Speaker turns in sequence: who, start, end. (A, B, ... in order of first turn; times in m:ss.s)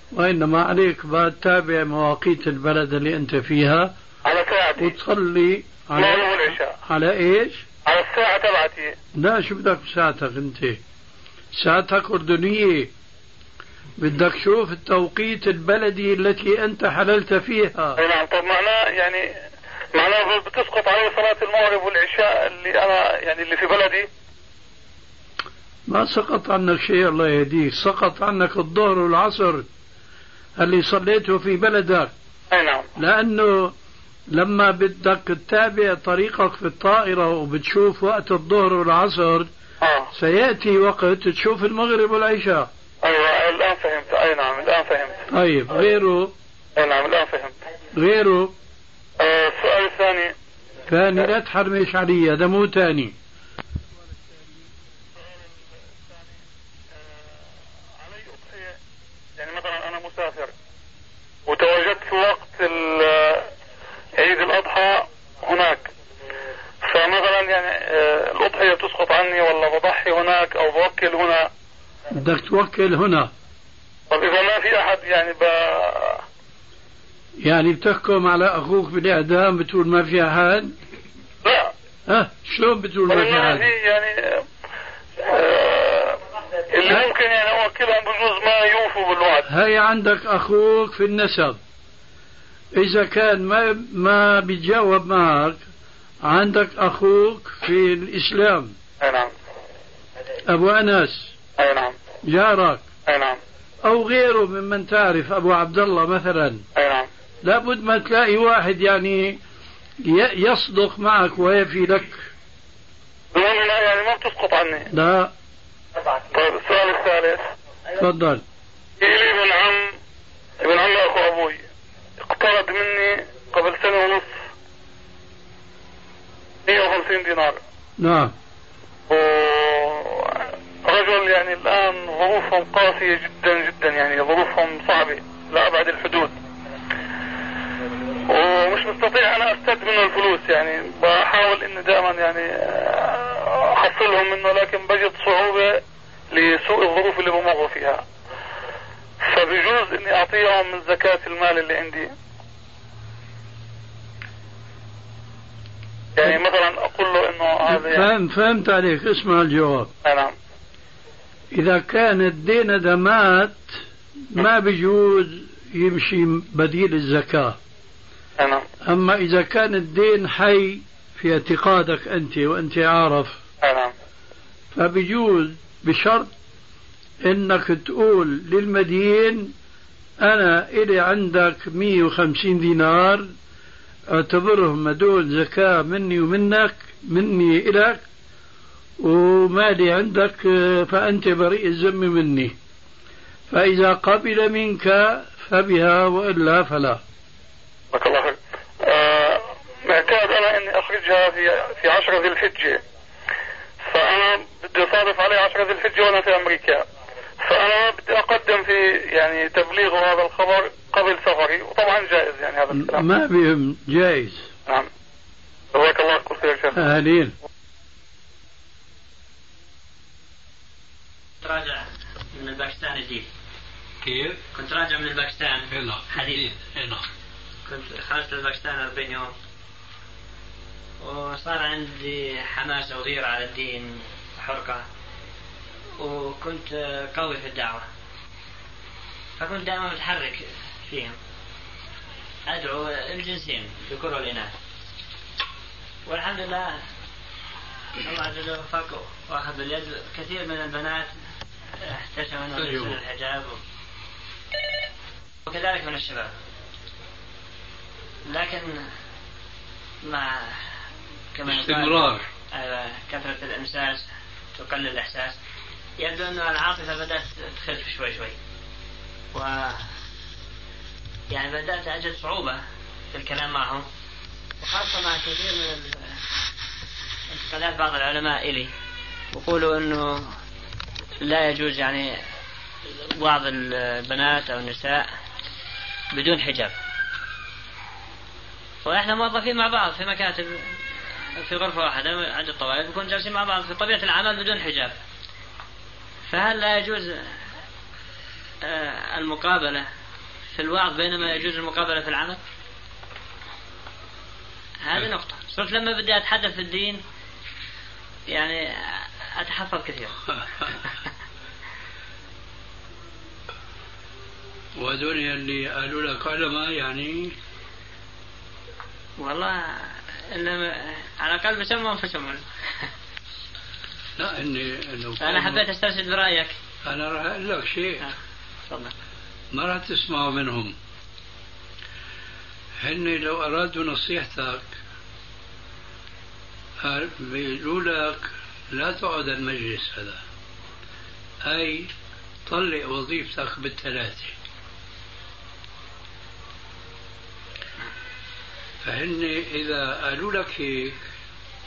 0:00.1-0:03.9 A
0:04.2-0:04.9 B
0:04.8-0:07.6 A
0:06.0-0:06.7 B
0:07.9-0:08.9 B
0:09.2-0:10.8 A
0:11.6-0:12.9 A
0:14.0-0:18.0 A
0:18.0-0:19.3 B
0:19.9-0:24.1 B
0:25.9-0:29.7 A
0:30.6-0:32.1 A
0:32.5-0:32.9 B
0:33.0-0:33.7 A
0:34.3-0:39.5 A
0:39.8-0:40.1 B
0:40.1-0:42.7 A
0:43.0-0:45.2 B
0:45.3-0:46.3 A
0:46.8-0:47.6 B
0:48.0-0:48.5 A
0:49.2-0:50.3 B
0:50.9-0:53.2 A
0:55.2-0:55.5 B
0:58.0-0:58.8 B
0:59.4-1:00.5 B
1:01.5-1:03.5 B
1:04.2-1:05.9 B
1:06.8-1:11.5 B
1:12.1-1:13.3 A
1:14.1-1:16.2 B
1:17.4-1:20.7 A
1:21.4-1:21.7 B
1:22.1-1:23.7 A
1:23.1-1:24.4 B
1:25.2-1:29.5 B
1:29.5-1:31.6 A
1:32.7-1:35.6 A
1:36.2-1:38.8 A
1:39.0-1:39.3 B
1:40.5-1:41.3 A
1:41.6-1:42.0 B
1:42.2-1:42.8 A
1:43.1-1:43.4 B
1:43.8-1:46.6 A
1:46.8-1:47.1 B
1:47.4-1:49.4 A
1:50.0-1:52.3 A
1:53.3-1:54.9 B
1:54.9-1:55.3 A
1:56.2-1:57.5 B
1:58.0-1:58.4 A
1:59.0-1:59.9 B
2:00.6-2:01.6 B
2:02.2-2:04.4 B
2:06.6-2:07.6 B
2:08.0-2:08.3 A
2:09.1-2:16.4 B
2:18.3-2:28.0 B
2:29.2-2:32.1 B
2:36.2-2:38.1 B
2:37.7-2:39.9 A
2:40.0-2:40.4 B
2:41.5-2:43.8 A
2:44.3-2:47.6 A
2:48.4-2:48.6 B
2:48.8-2:53.4 A
2:53.6-2:53.9 B
2:54.7-2:56.3 A
2:57.2-2:59.5 A
3:00.2-3:03.3 A
3:04.1-3:08.0 A
3:09.0-3:12.5 A
3:13.5-3:17.0 A
3:17.9-3:22.8 B
3:23.9-3:26.8 B
3:27.4-3:33.1 B
3:32.7-3:34.5 A
3:35.7-3:36.8 B
3:36.8-3:37.3 A
3:41.4-3:43.3 C
3:44.0-3:44.4 D
3:44.5-3:46.5 C
3:45.7-3:47.0 D
3:47.7-3:49.3 C
3:51.0-3:54.8 C
3:56.0-3:57.9 C
3:59.4-4:01.2 C
4:02.5-4:04.5 C
4:06.1-4:06.8 C
4:08.0-4:11.1 C
4:11.8-4:13.6 C
4:12.6-4:13.0 D
4:15.5-4:16.3 C
4:18.2-4:18.9 C
4:20.0-4:20.7 C
4:21.3-4:25.4 C
4:21.5-4:22.3 D
4:26.0-4:28.4 C
4:29.3-4:29.9 C
4:31.3-4:33.9 C
4:34.6-4:36.2 C
4:37.3-4:38.7 C
4:39.3-4:40.3 C
4:41.2-4:42.2 C
4:42.9-4:45.1 C
4:46.1-4:46.8 C
4:48.8-4:50.8 C
4:51.4-4:54.9 C
4:56.3-4:57.3 C
4:58.6-4:59.9 C
5:00.6-5:02.4 C
5:04.8-5:07.0 C
5:08.3-5:10.2 C
5:10.3-5:10.7 D
5:14.8-5:17.4 D
5:19.2-5:22.9 C
5:24.2-5:25.6 D
5:25.2-5:26.6 C
5:26.8-5:28.0 D
5:29.5-5:30.8 D
5:32.8-5:34.7 D
5:36.8-5:40.2 D
5:41.4-5:41.9 D
5:42.5-5:44.4 D
5:48.8-5:51.0 D